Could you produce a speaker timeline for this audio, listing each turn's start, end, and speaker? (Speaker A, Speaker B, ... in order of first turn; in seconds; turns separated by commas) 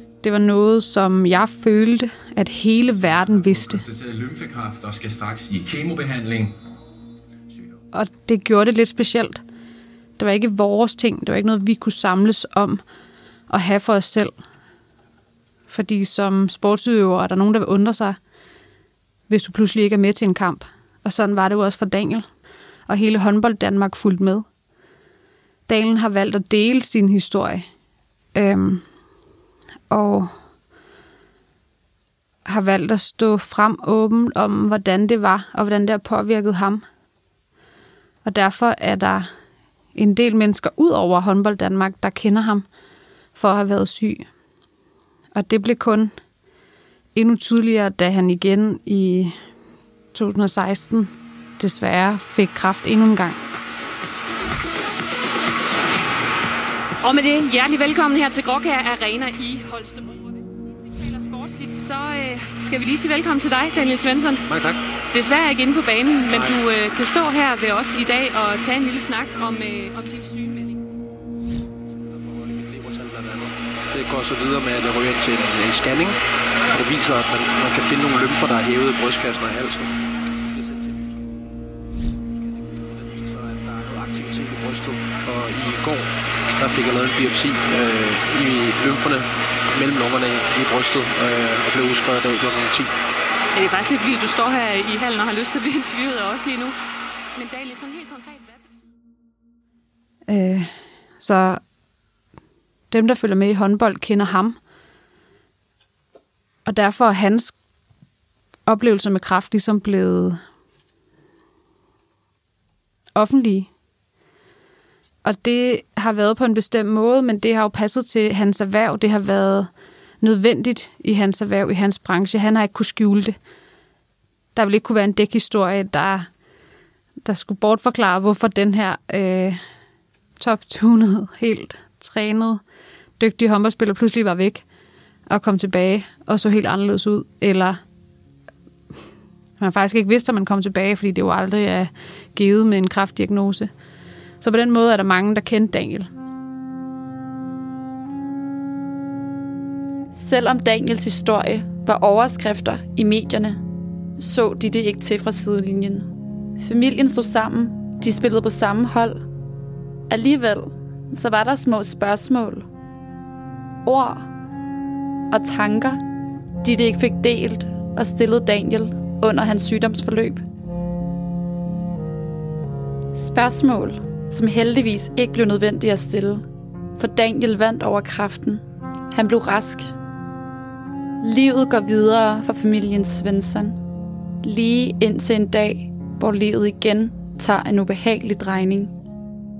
Speaker A: 0.2-3.8, Speaker B: 3.3-6.5, Speaker A: 7.9-9.4, Speaker A: 10.2-12.8, Speaker A: 13.5-14.3, Speaker A: 15.7-18.2, Speaker A: 19.3-22.2, Speaker A: 22.9-24.4, Speaker A: 25.7-27.6, Speaker A: 28.3-28.8, Speaker A: 29.9-30.3, Speaker A: 32.5-36.8, Speaker A: 38.2-39.2, Speaker A: 39.9-42.6, Speaker A: 43.4-44.2, Speaker A: 45.3-46.1, Speaker A: 47.1-49.3, Speaker A: 50.1-53.4, Speaker C: 57.0-60.2, Speaker C: 60.9-64.5, Speaker D: 64.5-64.8, Speaker C: 65.1-70.8, Speaker D: 72.2-76.2, Speaker D: 76.7-79.9, Speaker D: 80.5-81.1, Speaker D: 82.6-92.9, Speaker C: 93.5-96.7, Speaker C: 97.3-98.7, Speaker A: 100.3-100.7, Speaker A: 101.2-101.6, Speaker A: 102.9-104.5, Speaker A: 106.7-107.5, Speaker A: 108.7-110.4, Speaker A: 113.1-113.7, Speaker A: 115.2-119.7, Speaker A: 120.2-123.4, Speaker A: 124.5-126.2, Speaker A: 127.2-129.6, Speaker A: 130.4-132.6, Speaker A: 133.2-134.6, Speaker A: 135.3-137.8, Speaker A: 139.6-143.7, Speaker A: 144.4-146.1, Speaker E: 150.1-153.6, Speaker E: 154.2-159.2, Speaker E: 160.1-162.6, Speaker E: 163.8-164.2, Speaker E: 165.3-166.0, Speaker E: 166.6-170.4, Speaker E: 173.1-176.4, Speaker E: 177.0-179.9, Speaker E: 181.2-183.8, Speaker E: 184.4-188.9